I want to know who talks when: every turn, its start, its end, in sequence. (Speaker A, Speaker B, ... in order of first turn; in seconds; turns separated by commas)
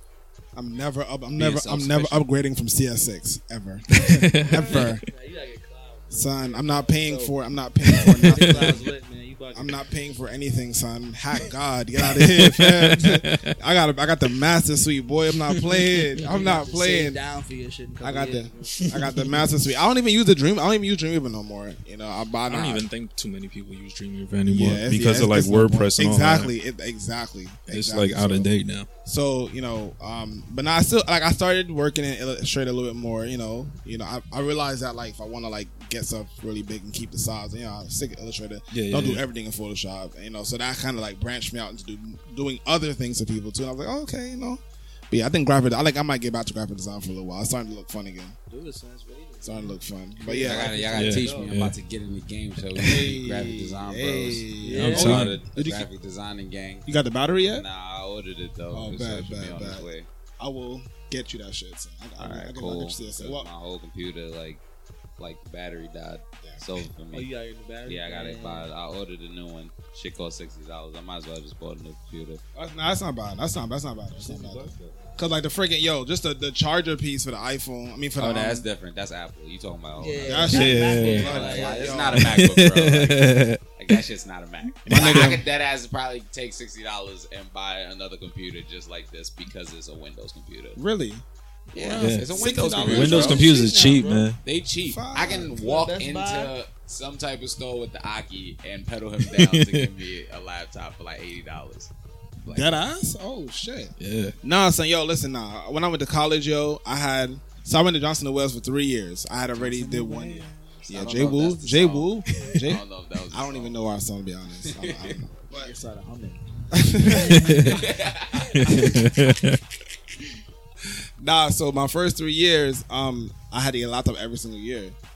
Speaker A: 0.6-5.0, Speaker B: 1.4-2.3, Speaker C: 4.0-5.0, Speaker D: 4.6-7.4, Speaker A: 6.1-8.8, Speaker C: 7.9-8.8, Speaker D: 7.9-9.8, Speaker A: 9.5-17.2, Speaker C: 12.3-13.5, Speaker D: 16.1-19.2, Speaker A: 18.0-22.9, Speaker C: 22.5-26.5, Speaker A: 24.5-28.5, Speaker C: 27.7-28.9, Speaker A: 29.1-48.4, Speaker C: 38.7-39.2, Speaker D: 48.5-51.5, Speaker A: 49.4-50.7, Speaker B: 50.4-56.9, Speaker C: 50.9-51.8, Speaker C: 52.8-53.0, Speaker A: 52.8-55.9, Speaker D: 54.6-55.3, Speaker C: 54.8-55.4, Speaker A: 56.9-57.7, Speaker B: 57.5-60.1, Speaker A: 58.7-59.9, Speaker A: 60.4-63.5, Speaker B: 62.2-64.6, Speaker B: 65.2-67.3, Speaker D: 67.1-68.7, Speaker B: 67.9-72.4, Speaker A: 72.5-78.6, Speaker D: 74.2-75.2, Speaker B: 78.2-90.8, Speaker D: 80.0-82.1, Speaker A: 80.2-82.4, Speaker C: 80.5-81.5, Speaker C: 82.0-84.0, Speaker A: 84.9-85.4, Speaker A: 90.8-93.9, Speaker B: 91.7-93.5, Speaker C: 92.0-94.4, Speaker D: 92.7-94.3, Speaker B: 94.4-101.9, Speaker A: 94.8-95.5, Speaker D: 95.2-96.5, Speaker C: 99.3-99.9, Speaker B: 102.4-102.8, Speaker A: 102.5-115.7, Speaker C: 104.0-104.4, Speaker D: 109.6-110.8, Speaker B: 110.9-112.1, Speaker B: 112.7-113.8, Speaker B: 114.6-115.2, Speaker D: 115.5-117.7, Speaker A: 116.7-117.6, Speaker C: 117.3-117.8, Speaker B: 117.7-118.7, Speaker C: 118.5-119.6, Speaker A: 121.2-125.0